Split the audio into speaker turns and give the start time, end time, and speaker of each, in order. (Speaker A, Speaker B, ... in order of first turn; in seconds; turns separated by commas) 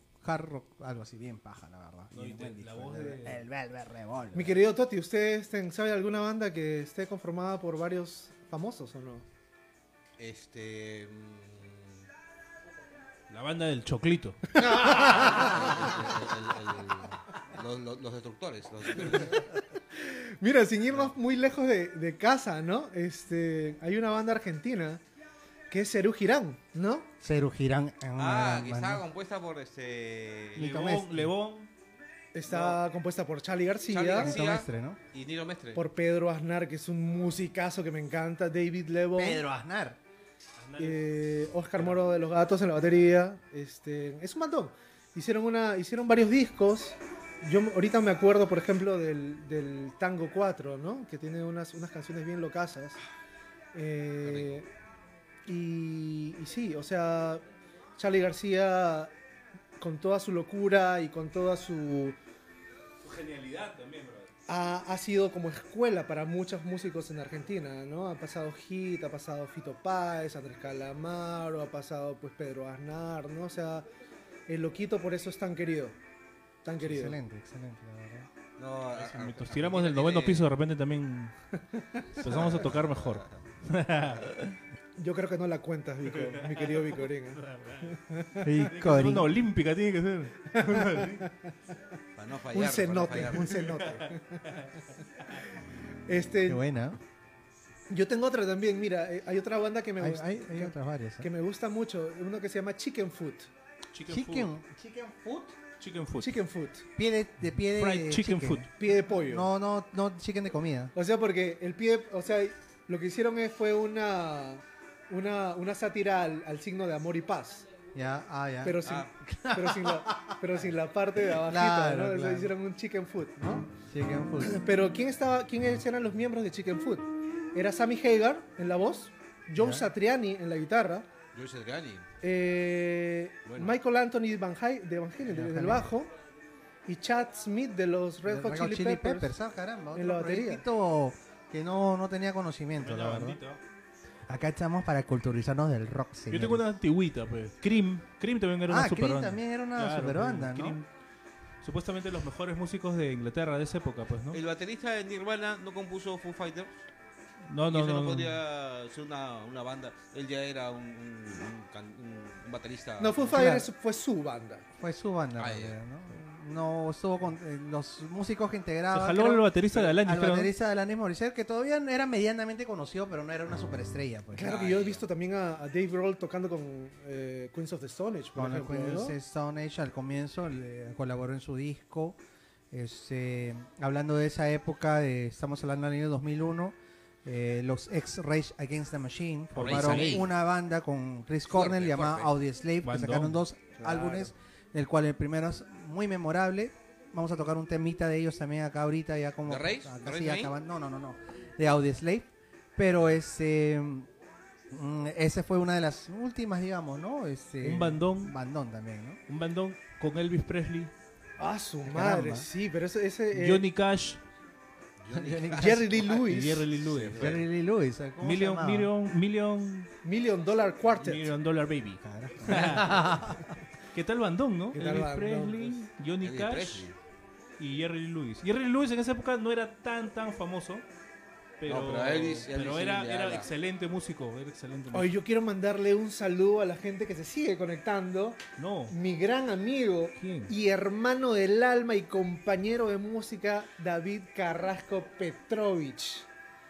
Speaker A: 0.2-4.6, Speaker B: 2.1-3.4, Speaker C: 4.3-9.2, Speaker D: 10.2-12.0, Speaker B: 13.3-14.6, Speaker C: 14.5-15.9, Speaker D: 14.9-19.4, Speaker C: 19.1-19.4, Speaker C: 19.9-25.0, Speaker C: 25.7-27.1, Speaker A: 27.2-29.0, Speaker D: 28.2-30.7, Speaker B: 30.6-31.7, Speaker A: 30.6-31.3, Speaker C: 32.3-34.4, Speaker D: 32.5-32.8, Speaker D: 33.9-35.8, Speaker A: 34.1-35.0, Speaker C: 35.7-39.4, Speaker A: 39.1-40.0, Speaker B: 40.6-41.1, Speaker C: 40.8-53.0, Speaker C: 53.7-54.7, Speaker D: 54.2-54.6, Speaker C: 55.5-57.4, Speaker C: 58.0-59.1, Speaker C: 59.8-62.2, Speaker B: 63.0-64.3, Speaker C: 64.5-73.9, Speaker C: 74.5-76.0, Speaker C: 76.6-77.2, Speaker A: 76.8-78.3, Speaker D: 78.6-80.5, Speaker B: 78.9-81.3, Speaker B: 82.2-84.6, Speaker D: 82.2-83.3, Speaker C: 85.0-88.7, Speaker B: 86.2-88.0, Speaker A: 88.4-89.4, Speaker B: 88.6-91.2, Speaker C: 90.5-91.5, Speaker D: 92.2-93.6, Speaker C: 92.5-94.4, Speaker B: 93.6-94.0, Speaker C: 96.1-96.6, Speaker A: 96.4-97.0, Speaker C: 97.9-103.5, Speaker A: 100.0-101.3, Speaker B: 103.9-104.5, Speaker A: 104.1-105.6, Speaker B: 105.8-106.4, Speaker C: 106.2-106.8, Speaker A: 107.0-110.9, Speaker B: 107.7-108.7, Speaker C: 108.8-109.5, Speaker C: 110.9-117.7, Speaker A: 117.9-120.4, Speaker C: 118.6-123.7, Speaker D: 118.8-119.1, Speaker A: 121.3-122.5, Speaker A: 123.9-124.6, Speaker C: 124.4-131.1, Speaker A: 129.6-129.9, Speaker D: 131.3-132.1, Speaker C: 132.2-136.1, Speaker D: 133.4-133.8, Speaker A: 135.3-135.9, Speaker C: 136.9-139.3, Speaker A: 138.2-143.4, Speaker C: 139.9-140.6, Speaker B: 142.8-143.6, Speaker A: 144.3-146.6, Speaker B: 146.3-150.9, Speaker A: 148.7-150.8, Speaker B: 151.6-154.4, Speaker D: 154.3-156.7, Speaker B: 157.5-158.4, Speaker D: 157.7-163.3, Speaker C: 163.0-164.6, Speaker A: 163.3-163.7, Speaker A: 164.8-174.6, Speaker D: 165.4-165.7, Speaker B: 168.9-170.5, Speaker C: 174.3-179.2, Speaker D: 174.4-175.0, Speaker A: 178.3-182.2, Speaker A: 182.7-204.1, Speaker B: 189.5-190.2, Speaker D: 189.6-190.3, Speaker D: 191.5-192.3, Speaker B: 192.8-193.4, Speaker C: 193.8-194.3, Speaker D: 199.4-200.5, Speaker A: 204.7-209.2, Speaker B: 207.6-208.3, Speaker B: 209.3-210.9, Speaker C: 211.4-213.6, Speaker A: 211.8-212.5, Speaker B: 213.3-214.2, Speaker D: 215.0-217.4, Speaker A: 215.1-215.9, Speaker C: 215.6-216.7, Speaker B: 216.1-217.4, Speaker A: 217.1-218.9, Speaker B: 218.2-219.9, Speaker C: 220.0-221.3, Speaker B: 221.0-223.2, Speaker A: 222.0-223.6, Speaker B: 223.9-226.8, Speaker C: 224.7-225.8, Speaker D: 226.2-226.9, Speaker B: 227.6-230.8, Speaker B: 231.6-235.1, Speaker D: 231.7-233.5, Speaker C: 234.9-246.3, Speaker B: 238.6-238.9, Speaker B: 240.2-240.5